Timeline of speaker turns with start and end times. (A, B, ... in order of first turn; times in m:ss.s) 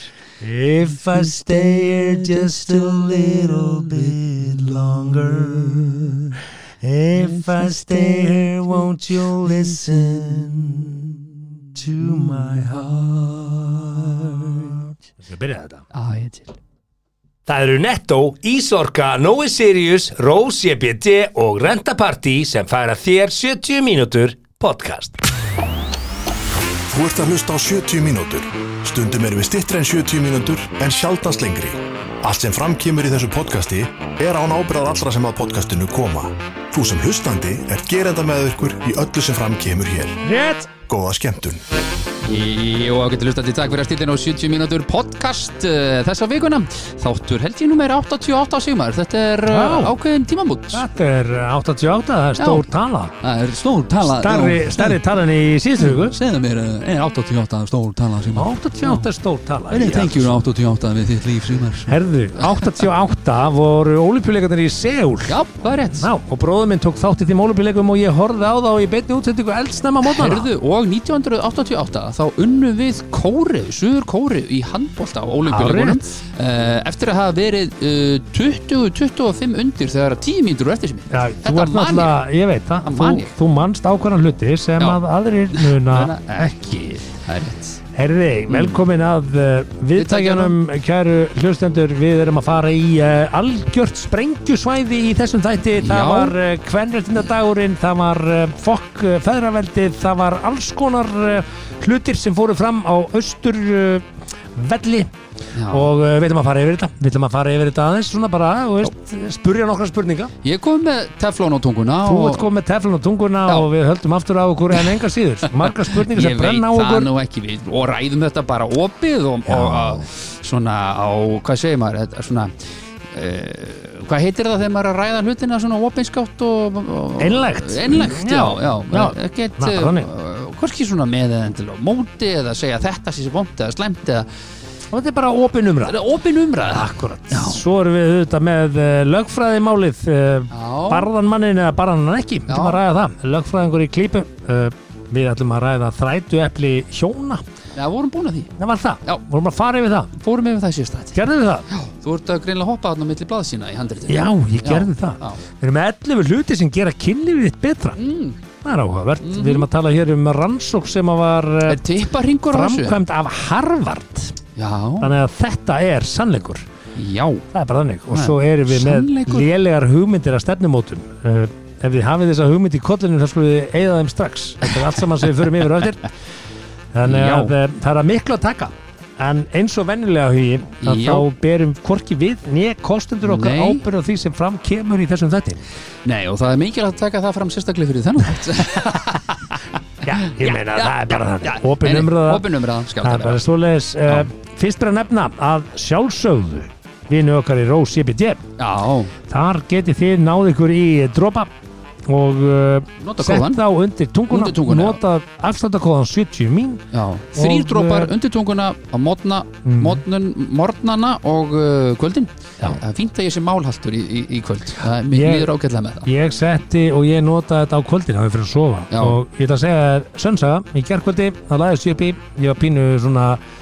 0:00.4-0:15.8 A
0:01.2-0:04.2 B
0:07.2-0:08.6 B
0:11.9-0:14.8 B
0:15.9-0:16.5 B
0:17.4-0:25.2 A
0:26.9-0:40.2 C
0:40.2-0:40.7 A
0:40.9-0:41.6 C
0:42.2-0:50.8 B
0:49.4-0:50.0 A
0:50.7-0:53.1 A
0:52.4-0:52.6 B
0:53.2-0:55.0 B
0:54.0-0:56.2 A
0:55.8-0:59.1 B
0:58.3-1:00.4 A
0:59.7-1:02.8 B
1:01.9-1:05.4 A
1:05.2-1:06.1 B
1:06.0-1:10.5 A
1:10.0-1:22.2 B
1:15.4-1:16.0 A
1:21.1-1:27.0 A
1:22.8-1:23.3 B
1:25.5-1:27.8 B
1:27.9-1:45.1 A
1:28.5-1:28.8 B
1:29.9-1:30.5 B
1:35.8-1:36.4 B
1:45.5-1:45.9 B
1:45.6-1:50.3 A
1:50.4-1:52.5 B
1:52.0-1:57.1 A
1:54.7-2:02.5 B
1:59.4-2:00.1 A
2:03.1-2:14.3 B
2:07.2-2:10.1 A
2:14.9-2:16.0 A
2:15.8-2:17.6 B
2:16.6-2:27.4 A
2:20.5-2:21.1 B
2:22.5-2:22.8 B
2:27.7-2:29.2 B
2:28.6-2:30.1 A
2:30.1-2:35.4 B
2:31.1-2:31.7 A
2:34.1-2:38.0 A
2:38.0-2:38.4 B
2:38.6-2:41.8 A
2:39.2-2:39.7 B
2:41.6-2:43.0 B
2:42.5-2:44.4 A
2:44.6-2:45.1 B
2:45.0-2:46.6 A
2:47.0-2:47.4 B
2:47.5-2:56.1 A
2:48.1-2:49.5 B
2:56.9-3:05.6 A
2:57.0-2:57.5 B
3:00.8-3:01.3 B
3:03.2-3:03.8 B
3:06.0-3:13.4 B
3:10.0-3:12.5 A
3:13.0-3:18.4 A
3:14.0-3:14.3 B
3:18.6-3:19.1 B
3:19.3-3:21.5 A
3:22.0-3:28.1 A
3:23.0-3:23.6 B
3:24.3-3:25.0 B
3:26.9-3:36.1 B
3:29.6-3:30.0 A
3:35.0-3:35.5 A
3:36.0-3:43.4 A
3:38.9-3:39.2 B